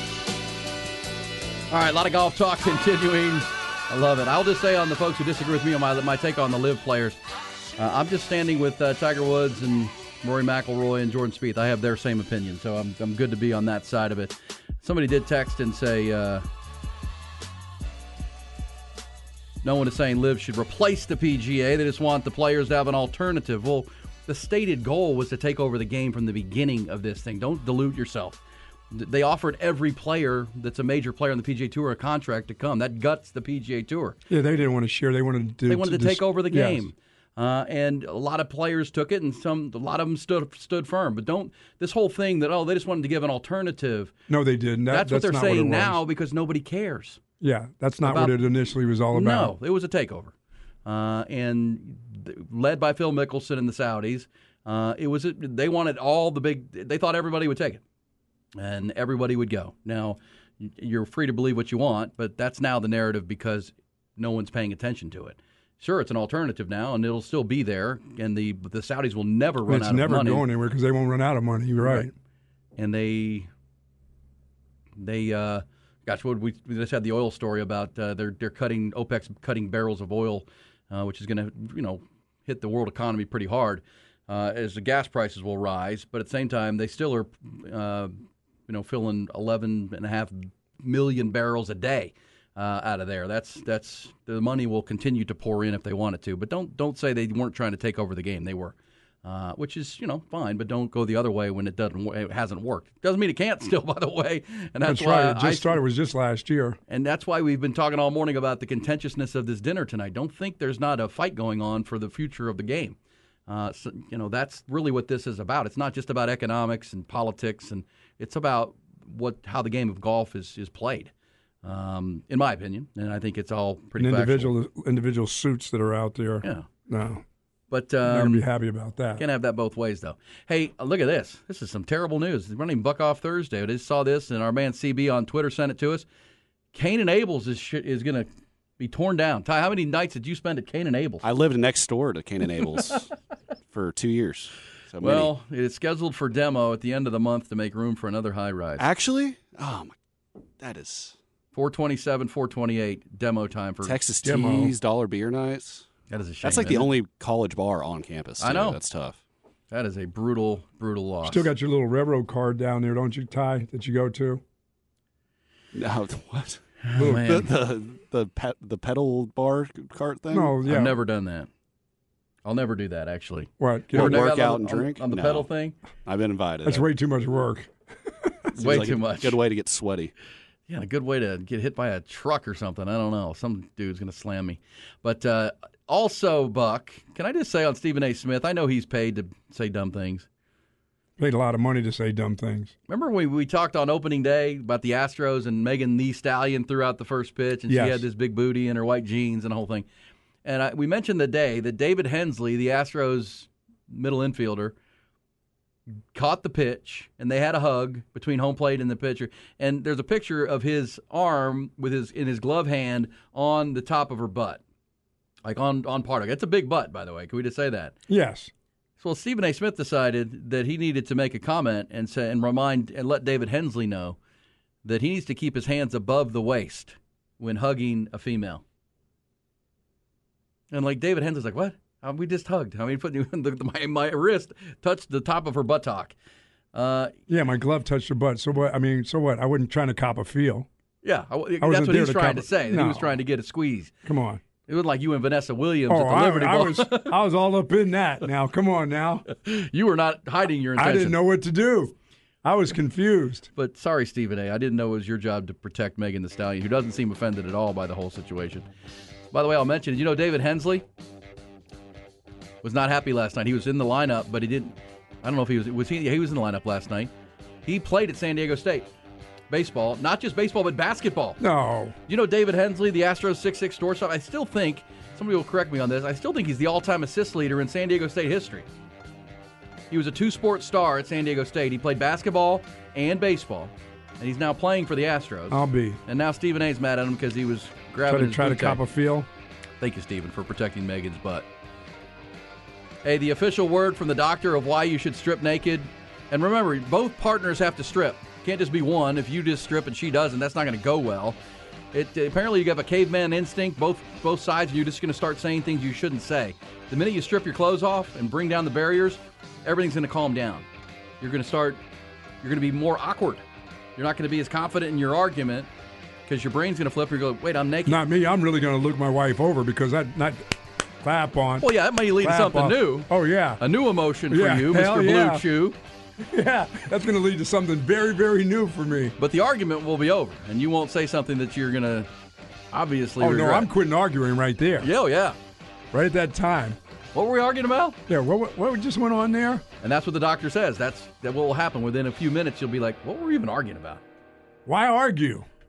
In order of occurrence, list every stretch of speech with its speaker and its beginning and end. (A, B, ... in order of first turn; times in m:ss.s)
0:01.7-0:07.2 A
0:07.8-0:16.4 A
0:19.6-0:34.2 A
0:34.3-0:36.9 B
0:35.7-0:44.1 A
0:44.3-0:46.0 B
0:44.9-0:47.2 A
0:47.4-0:49.6 B
0:48.0-0:48.4 A
0:49.1-0:50.3 A
0:50.8-0:57.8 A
0:58.6-1:10.5 A
1:09.7-1:12.1 B
1:12.8-1:13.5 A
1:15.0-1:45.8 A
1:44.8-1:46.8 B
1:46.9-1:53.0 A
1:53.5-2:01.1 A
2:01.6-2:04.6 A
2:04.0-2:07.2 B
2:06.4-2:06.7 A
2:07.7-2:08.5 A
2:08.0-2:09.2 B
2:09.2-2:16.0 A
2:16.7-2:18.3 A
2:18.8-2:21.2 A
2:21.2-2:23.1 C
2:23.7-2:25.3 C
2:25.0-2:28.8 A
2:28.8-2:29.9 C
2:30.6-2:31.2 C
2:31.6-2:34.0 A
2:33.8-2:35.9 C
2:34.2-2:34.7 B
2:36.1-2:37.0 A
2:36.4-2:39.2 C
2:38.4-2:38.8 A
2:39.7-2:41.5 A
2:41.2-2:44.4 B
2:45.7-2:50.5 C
2:46.8-2:47.5 A
2:47.0-2:47.2 B
2:50.3-2:51.0 B
2:50.6-2:51.5 A
2:52.4-2:55.8 A
2:53.6-2:54.2 B
2:54.0-2:55.5 C
2:56.0-2:56.8 C
2:56.6-2:58.5 B
2:58.6-3:00.1 C
2:58.6-2:59.4 A
3:00.7-3:10.3 A
3:11.2-3:12.7 B
3:12.9-3:19.9 A
3:17.7-3:18.0 B
3:20.4-3:24.8 A
3:26.1-3:34.6 A
3:35.4-3:38.0 A
3:38.1-3:38.5 B
3:39.0-3:44.2 A
3:44.8-3:48.6 A
3:50.7-3:56.1 A
3:56.7-3:57.1 A
3:57.3-4:00.7 B
4:01.0-4:03.9 A
4:01.6-4:03.1 B
4:04.0-4:04.4 B
4:04.7-4:07.2 A
4:05.9-4:09.2 B
4:09.3-4:11.2 A
4:10.8-4:13.5 B
4:13.6-4:18.7 A
4:19.3-4:20.8 A
4:22.6-4:27.1 A
4:27.7-4:28.9 A
4:29.5-4:31.4 A
4:31.4-4:32.0 B
4:32.1-4:38.7 A
4:39.9-4:48.8 A
4:45.5-4:46.0 B
4:48.1-4:49.3 B
4:49.8-4:51.5 A
4:53.0-5:01.4 A
5:01.9-5:10.7 A
5:11.2-5:11.8 A
5:12.4-5:13.4 A
5:14.0-5:15.7 A
5:16.3-5:18.0 A
5:17.9-5:21.7 B
5:21.6-5:23.1 A
5:22.2-5:23.6 B
5:23.6-5:25.8 A
5:24.3-5:25.5 B
5:26.2-5:29.2 B
5:29.2-5:32.1 A
5:32.7-5:33.7 A
5:33.2-5:34.9 B
5:34.8-5:35.4 A
5:35.9-5:36.8 B
5:37.2-5:38.0 A
5:38.1-5:39.6 B
5:39.8-5:44.0 A
5:44.7-5:45.5 B